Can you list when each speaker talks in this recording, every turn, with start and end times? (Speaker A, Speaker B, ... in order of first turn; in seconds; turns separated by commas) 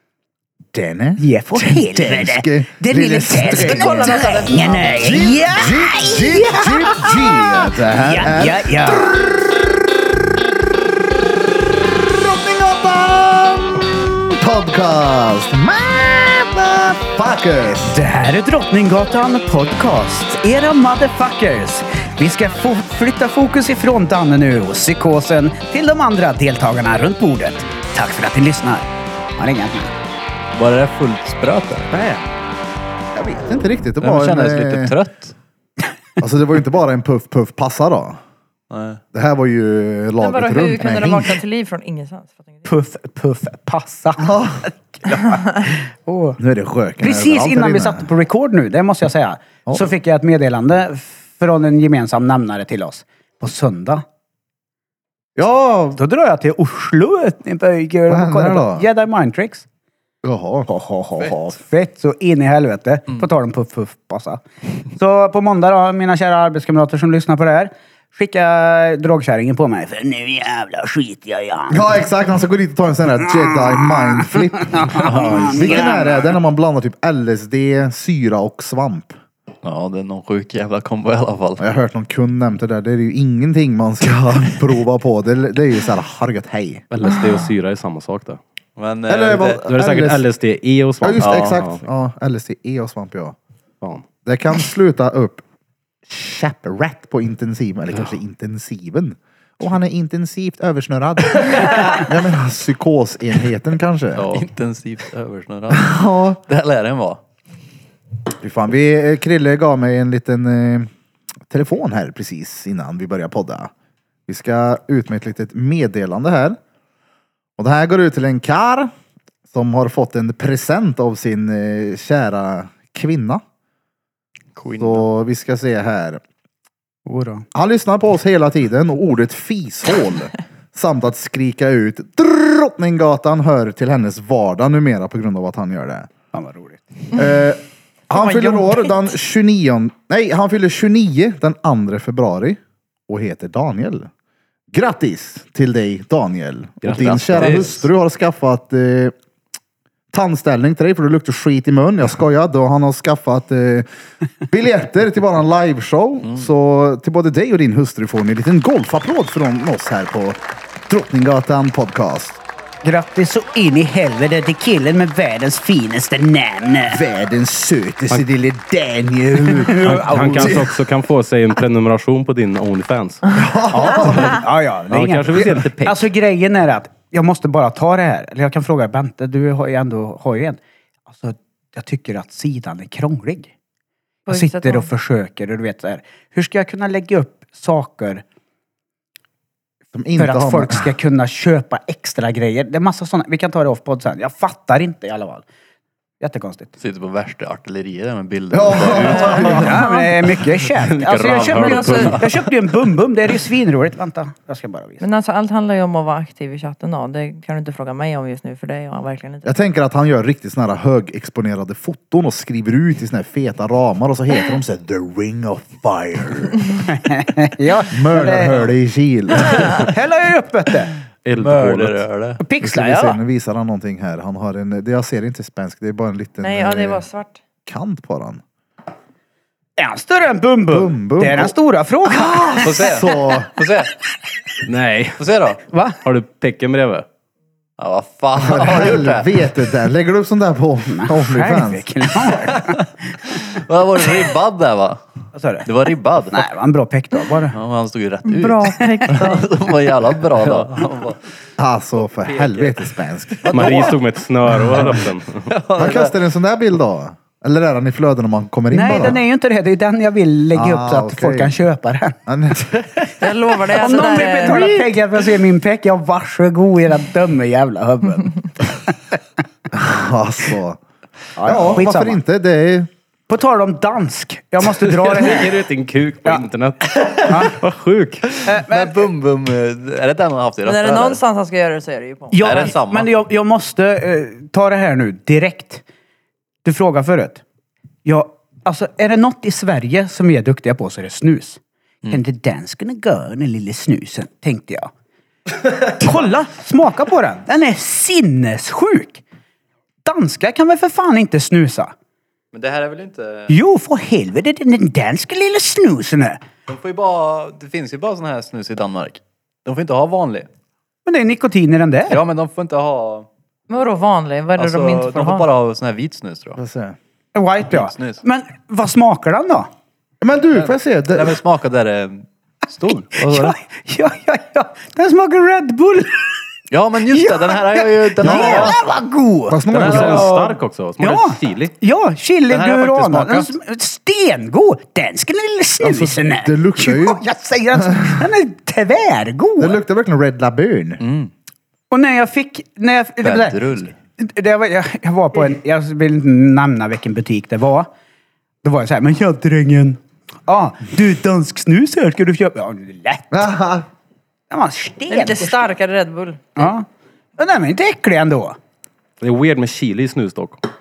Speaker A: 0.7-9.4, Speaker B: 1.2-9.2, Speaker C: 3.8-4.5, Speaker A: 11.9-18.0, Speaker B: 17.9-29.9, Speaker D: 30.6-31.9, Speaker A: 31.9-32.2, Speaker A: 33.1-34.9, Speaker D: 34.0-35.4, Speaker A: 36.2-38.2, Speaker D: 38.7-39.0, Speaker A: 39.1-41.4, Speaker C: 40.2-42.7, Speaker B: 42.7-46.4, Speaker A: 44.2-44.6, Speaker A: 46.4-48.1, Speaker B: 47.0-54.0, Speaker A: 55.4-56.0, Speaker B: 56.0-59.6, Speaker A: 58.1-58.9, Speaker A: 60.2-60.7, Speaker B: 60.7-64.4, Speaker B: 64.9-71.9, Speaker A: 71.7-79.2, Speaker B: 73.5-76.3, Speaker D: 75.0-75.7, Speaker D: 79.6-81.7, Speaker A: 81.6-86.8, Speaker E: 86.9-88.4, Speaker D: 88.8-89.7, Speaker A: 89.1-90.2, Speaker E: 89.6-91.8, Speaker A: 91.0-93.4, Speaker D: 91.2-91.6, Speaker E: 93.8-94.1, Speaker A: 94.2-95.4, Speaker A: 96.1-104.4, Speaker D: 104.2-107.2, Speaker A: 105.7-106.4, Speaker A: 108.4-110.9, Speaker A: 111.5-113.7, Speaker A: 114.3-116.6, Speaker A: 117.6-118.9, Speaker A: 119.5-123.4, Speaker D: 124.6-125.1, Speaker A: 124.8-126.2, Speaker B: 127.1-127.5, Speaker A: 127.5-136.1, Speaker B: 136.3-137.1, Speaker A: 137.1-144.1, Speaker A: 144.7-149.1, Speaker E: 146.8-147.8, Speaker D: 146.9-147.9, Speaker A: 150.1-153.9, Speaker A: 154.5-162.4, Speaker B: 162.8-167.0, Speaker A: 166.9-170.7, Speaker B: 169.4-170.7, Speaker E: 169.7-173.2, Speaker A: 173.3-174.4, Speaker B: 173.7-183.5, Speaker E: 174.9-176.1, Speaker C: 184.3-184.9, Speaker B: 184.3-188.2, Speaker A: 189.9-190.9, Speaker B: 190.2-195.4, Speaker B: 196.2-196.8, Speaker D: 196.8-199.8, Speaker A: 198.5-199.8, Speaker C: 199.1-200.1, Speaker B: 199.3-205.0, Speaker E: 200.8-202.2, Speaker C: 201.5-202.2, Speaker D: 201.7-202.5, Speaker C: 205.0-209.5, Speaker A: 209.4-216.8, Speaker B: 216.9-218.7, Speaker A: 217.9-219.9, Speaker B: 219.8-220.9, Speaker E: 221.2-222.0, Speaker D: 221.3-222.4, Speaker B: 222.4-223.2, Speaker A: 222.6-227.1, Speaker C: 226.4-227.4, Speaker A: 227.7-228.4, Speaker B: 229.8-232.9, Speaker A: 230.7-233.5, Speaker D: 232.6-233.9, Speaker E: 234.7-235.2, Speaker D: 235.2-235.6, Speaker B: 235.7-236.0, Speaker E: 236.0-237.1, Speaker D: 237.8-239.5, Speaker A: 238.4-241.9, Speaker B: 240.9-242.9, Speaker D: 242.3-245.0, Speaker B: 245.3-245.7, Speaker D: 245.7-246.5, Speaker B: 246.3-247.6, Speaker D: 247.5-251.2, Speaker C: 248.3-249.5, Speaker B: 248.8-249.1, Speaker A: 251.6-253.9, Speaker D: 252.3-252.8, Speaker D: 253.3-254.0, Speaker E: 253.5-255.5, Speaker D: 254.7-256.2, Speaker A: 255.8-259.2, Speaker B: 258.7-262.2, Speaker A: 260.5-261.6, Speaker A: 262.3-262.8, Speaker C: 263.2-264.9, Speaker B: 263.7-269.0, Speaker A: 269.7-270.8, Speaker B: 271.4-272.2, Speaker A: 271.4-272.9, Speaker B: 273.3-275.6, Speaker E: 274.8-278.3, Speaker B: 277.3-277.6, Speaker D: 278.3-281.2, Speaker B: 278.4-279.1, Speaker C: 280.6-282.7, Speaker B: 282.3-285.8, Speaker D: 282.4-283.1, Speaker B: 286.6-287.4, Speaker B: 288.1-294.9, Speaker B: 295.8-299.2, Speaker B: 300.1-301.9, Speaker D: 302.5-303.6, Speaker B: 303.5-306.4, Speaker D: 306.7-310.5, Speaker B: 311.1-312.2, Speaker D: 312.1-313.3, Speaker C: 313.7-315.5, Speaker D: 314.6-316.6, Speaker A: 316.6-317.0, Speaker B: 317.4-319.7, Speaker D: 317.7-318.2, Speaker A: 320.2-321.4, Speaker D: 320.5-323.6, Speaker B: 323.2-326.4, Speaker D: 326.7-328.8, Speaker B: 327.1-330.4, Speaker A: 328.2-328.8, Speaker A: 329.5-330.3, Speaker E: 329.7-331.7, Speaker D: 329.7-330.5, Speaker B: 331.0-339.8, Speaker D: 332.5-333.6, Speaker A: 335.8-337.2, Speaker A: 337.8-338.3, Speaker A: 339.6-341.0, Speaker D: 341.0-341.3, Speaker B: 341.9-347.9, Speaker D: 343.2-344.0, Speaker B: 348.6-353.4, Speaker A: 353.3-353.9, Speaker B: 354.5-355.7, Speaker C: 355.1-356.7, Speaker B: 356.6-358.6, Speaker E: 359.2-360.6